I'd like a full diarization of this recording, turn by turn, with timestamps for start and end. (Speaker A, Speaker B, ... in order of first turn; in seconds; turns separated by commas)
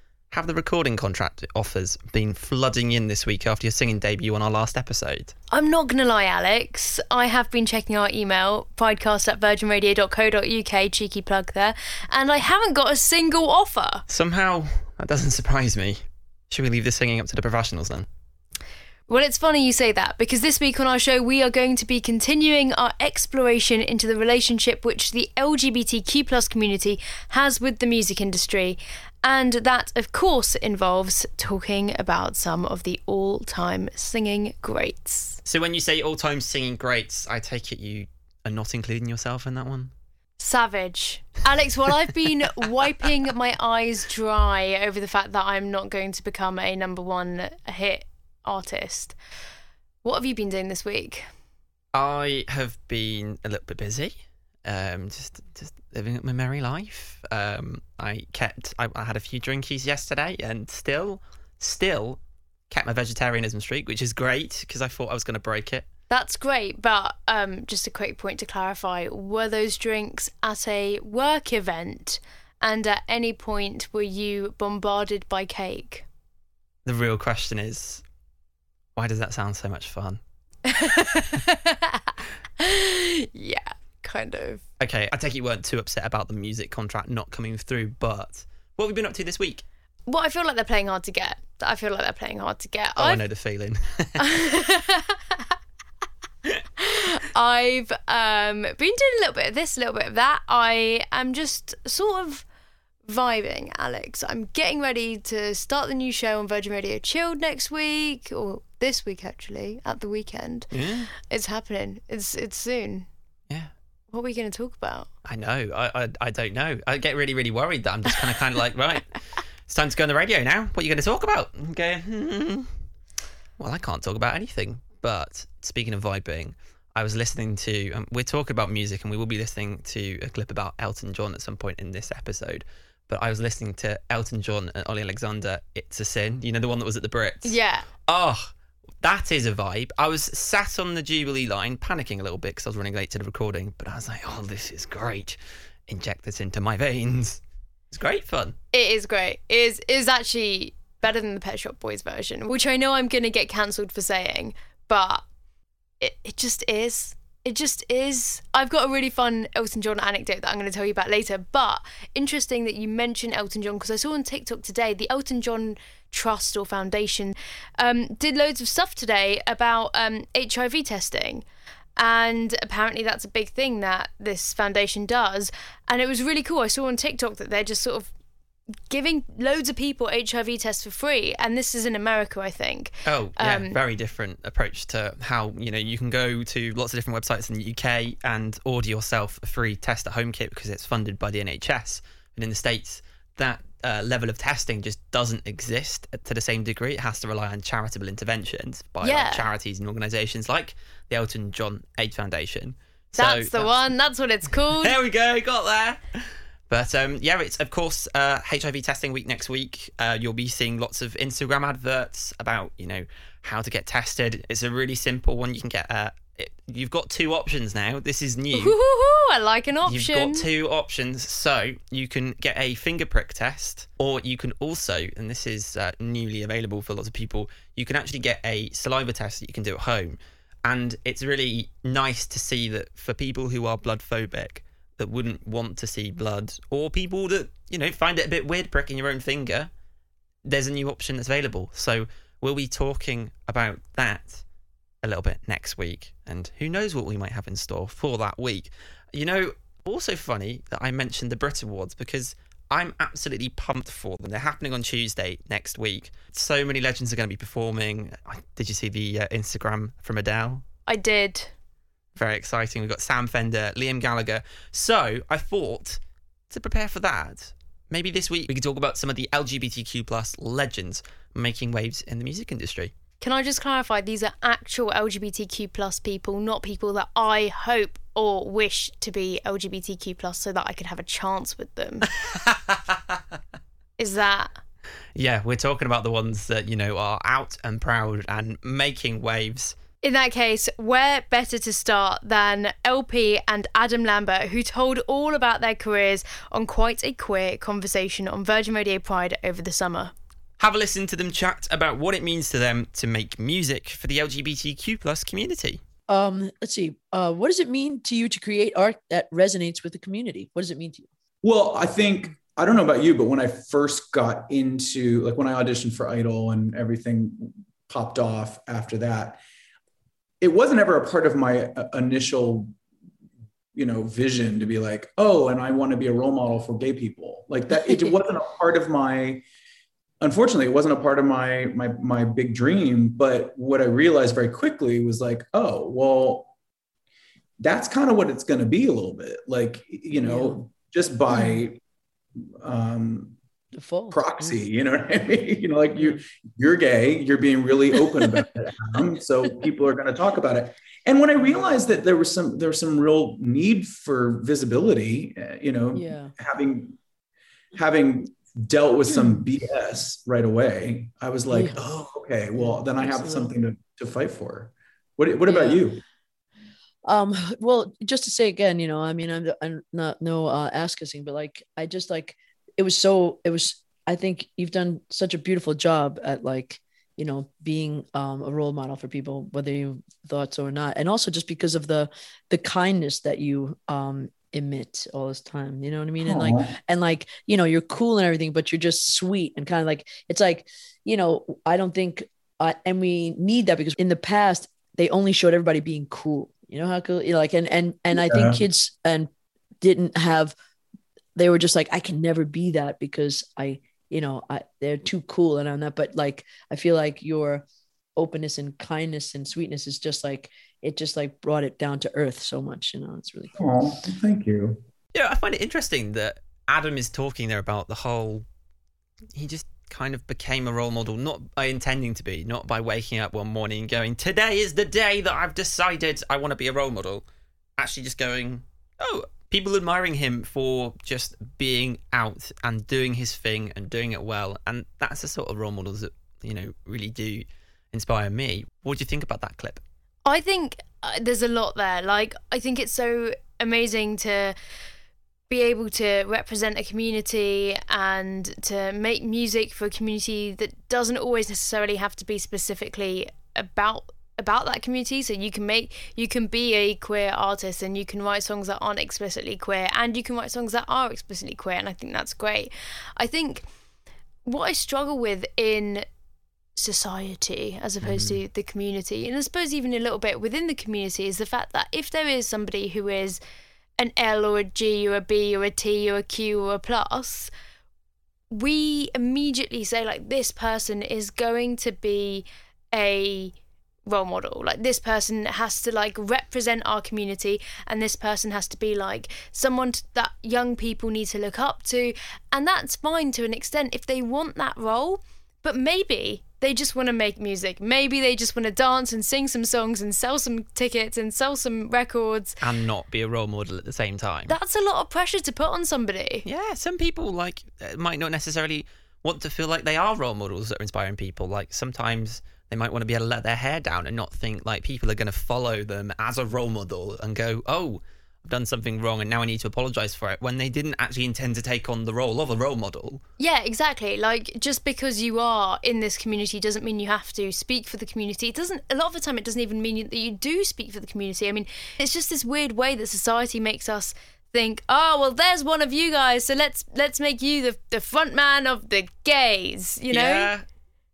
Speaker A: 0.3-5.3, Speaker B: 5.5-14.0, Speaker A: 14.1-18.1, Speaker B: 19.1-35.4, Speaker A: 35.4-39.9, Speaker B: 40.4-49.1, Speaker B: 50.0-51.2, Speaker A: 51.9-65.8, Speaker B: 66.1-76.0, Speaker A: 76.8-78.0, Speaker A: 79.0-80.2, Speaker B: 80.7-84.6, Speaker A: 84.8-89.6, Speaker B: 90.1-93.2, Speaker A: 93.0-94.2, Speaker B: 94.2-95.4, Speaker B: 96.8-102.4, Speaker B: 103.1-113.1, Speaker A: 110.7-111.1, Speaker B: 114.1-115.1, Speaker A: 115.2-119.1, Speaker A: 119.7-122.7, Speaker A: 123.6-145.4, Speaker B: 137.4-137.8, Speaker A: 145.9-147.4, Speaker A: 147.9-148.5, Speaker B: 148.7-155.2, Speaker B: 156.0-171.4, Speaker B: 172.0-178.1, Speaker B: 178.9-183.8, Speaker A: 183.0-203.9, Speaker B: 199.0-199.5, Speaker B: 203.2-204.9, Speaker A: 204.7-206.0, Speaker A: 206.7-218.8, Speaker B: 218.5-220.5, Speaker A: 219.8-239.7, Speaker A: 240.4-244.4, Speaker A: 245.0-260.6, Speaker B: 260.9-261.5, Speaker A: 262.1-266.0, Speaker A: 266.5-272.9, Speaker B: 273.2-282.1, Speaker A: 282.3-282.7, Speaker B: 284.0-284.5, Speaker A: 285.1-289.7, Speaker B: 290.0-300.1, Speaker A: 300.6-305.8, Speaker C: 306.1-311.1, Speaker D: 311.4-319.4, Speaker D: 320.4-322.7, Speaker D: 323.7-329.4, Speaker C: 327.8-328.1, Speaker D: 330.2-336.5, Speaker D: 337.6-341.8, Speaker C: 340.1-340.6, Speaker C: 341.3-341.6, Speaker D: 342.6-343.3, Speaker C: 343.7-344.6, Speaker D: 344.1-357.0, Speaker C: 345.9-346.2, Speaker C: 347.9-348.4, Speaker C: 351.4-351.7, Speaker C: 355.9-356.3, Speaker D: 357.8-366.0, Speaker C: 359.1-359.4, Speaker C: 361.5-361.8, Speaker C: 362.5-363.5, Speaker C: 365.4-365.8, Speaker C: 367.1-399.3, Speaker D: 386.2-386.8, Speaker D: 398.2-398.6, Speaker C: 399.8-400.5, Speaker C: 401.4-407.6, Speaker C: 408.1-413.6, Speaker D: 413.6-414.8, Speaker A: 415.1-418.4, Speaker A: 419.3-427.2, Speaker A: 427.8-439.8, Speaker B: 440.2-444.5, Speaker B: 445.5-463.6, Speaker B: 464.4-466.0, Speaker B: 466.8-473.4, Speaker B: 474.0-477.5, Speaker B: 478.5-483.5, Speaker B: 484.1-502.6, Speaker A: 502.6-504.5, Speaker B: 504.5-506.4, Speaker A: 506.4-523.2, Speaker B: 523.4-540.5, Speaker A: 540.1-540.6